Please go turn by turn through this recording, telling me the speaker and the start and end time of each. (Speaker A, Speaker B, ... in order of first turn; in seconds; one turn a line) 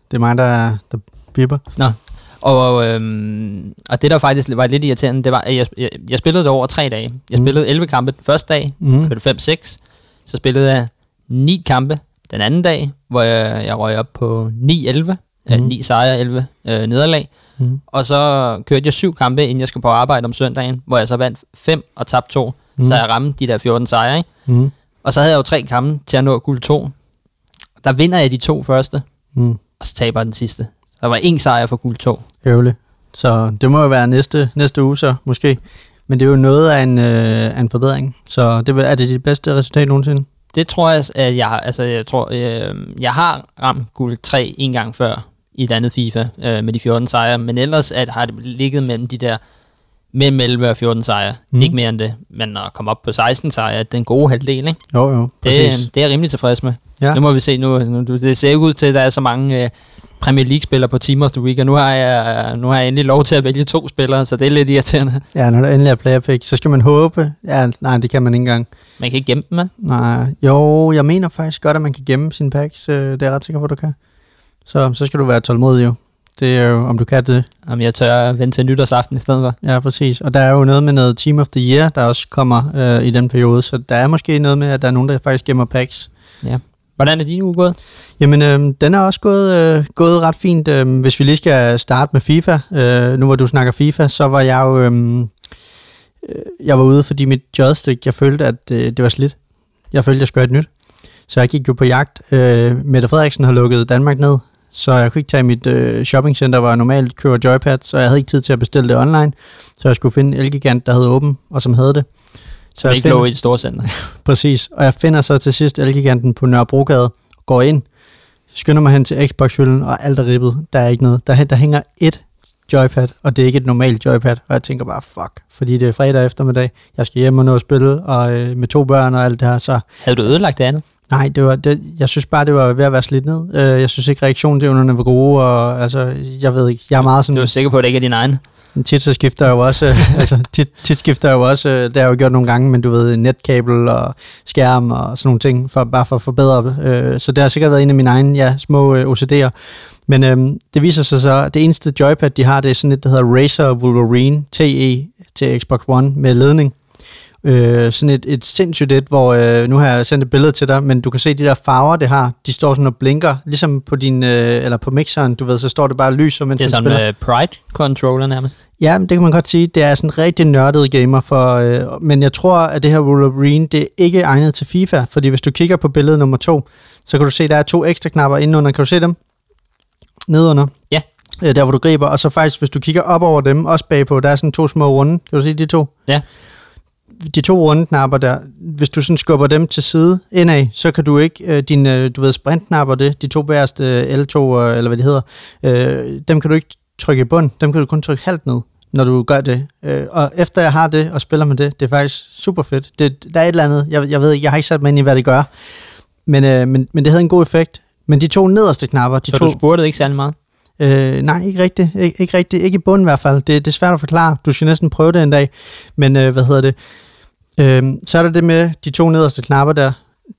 Speaker A: 0.1-1.6
Speaker B: 1.8-17.3
Speaker A: 8.8-9.1
Speaker B: 17.9-24.3
Speaker A: 24.4-24.7
Speaker B: 25.0-26.9
Speaker B: 27.8-29.0
Speaker B: 29.8-32.2
Speaker A: 32.4-40.2
Speaker B: 40.5-49.4
Speaker B: 50.1-54.8
Speaker A: 54.9-55.9
Speaker B: 55.4-65.2
Speaker A: 65.3-68.7
Speaker B: 69.0-69.7
Speaker A: 69.8-74.0
Speaker A: 74.7-77.5
Speaker B: 77.7-79.5
Speaker A: 79.6-86.1
Speaker B: 86.4-87.8
Speaker A: 88.2-95.3
Speaker A: 96.2-99.4
Speaker A: 99.9-100.7
Speaker A: 101.3-112.1
Speaker A: 112.7-113.3
Speaker B: 112.8-113.9
Speaker A: 113.8-117.8
Speaker A: 118.5-129.8
Speaker B: 130.0-130.8
Speaker A: 131.1-137.5
Speaker B: 137.0-138.4
Speaker A: 138.7-156.8
Speaker A: 157.4-167.0
Speaker B: 166.6-168.6
Speaker A: 168.8-179.2
Speaker A: 180.3-180.7
Speaker A: 181.4-185.9
Speaker A: 187.2-205.5
Speaker A: 206.2-209.6
Speaker B: 209.3-210.3
Speaker A: 210.8-216.7
Speaker A: 217.6-220.0